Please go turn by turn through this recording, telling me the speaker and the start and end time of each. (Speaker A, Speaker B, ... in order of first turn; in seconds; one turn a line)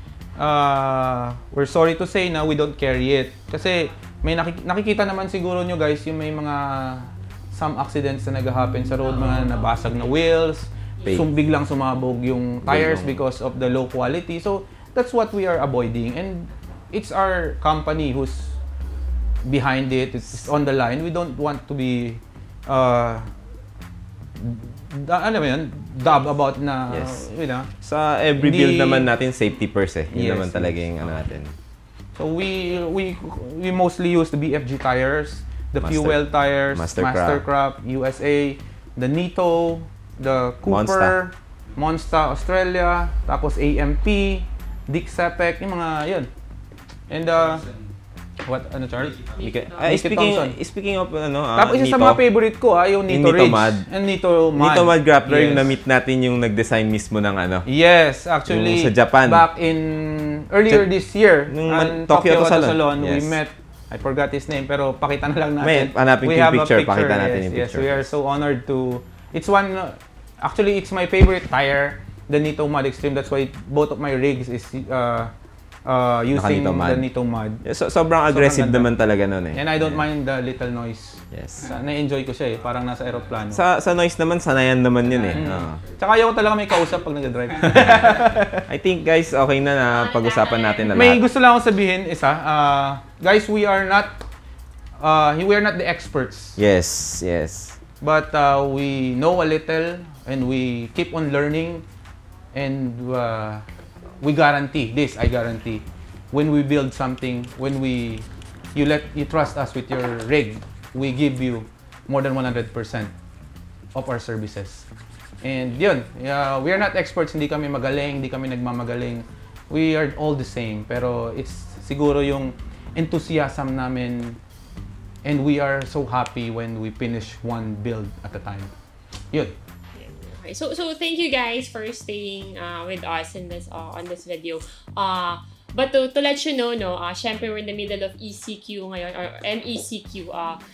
Speaker A: 0.4-18.6
Speaker B: 9.1-10.1
Speaker C: 12.6-13.2
Speaker A: 19.4-23.3
Speaker A: 24.4-27.7
Speaker C: 26.9-27.3
Speaker C: 27.8-31.6
Speaker A: 28.4-29.1
Speaker A: 30.1-31.2
Speaker A: 32.1-46.3
Speaker C: 35.8-37.4
Speaker C: 40.7-41.2
Speaker A: 47.1-47.7
Speaker A: 48.5-50.6
Speaker B: 49.4-50.0
Speaker C: 49.6-52.2
Speaker A: 51.5-55.7
Speaker C: 53.1-53.9
Speaker C: 54.5-57.7
Speaker A: 57.7-75.3
Speaker C: 58.5-59.5
Speaker C: 61.5-63.4
Speaker C: 65.6-68.1
Speaker A: 75.9-77.6
Speaker C: 76.3-77.1
Speaker C: 77.6-80.0
Speaker A: 78.3-78.9
Speaker A: 79.5-83.6
Speaker C: 81.3-81.7
Speaker C: 83.5-85.8
Speaker A: 85.3-88.7
Speaker C: 87.8-91.2
Speaker B: 89.9-91.2
Speaker A: 90.9-94.2
Speaker A: 95.0-96.6
Speaker C: 96.6-97.8
Speaker A: 98.0-101.8
Speaker A: 102.5-103.7
Speaker A: 104.2-113.1
Speaker A: 114.0-114.9
Speaker A: 115.4-124.4
Speaker A: 125.2-128.7
Speaker B: 129.9-140.6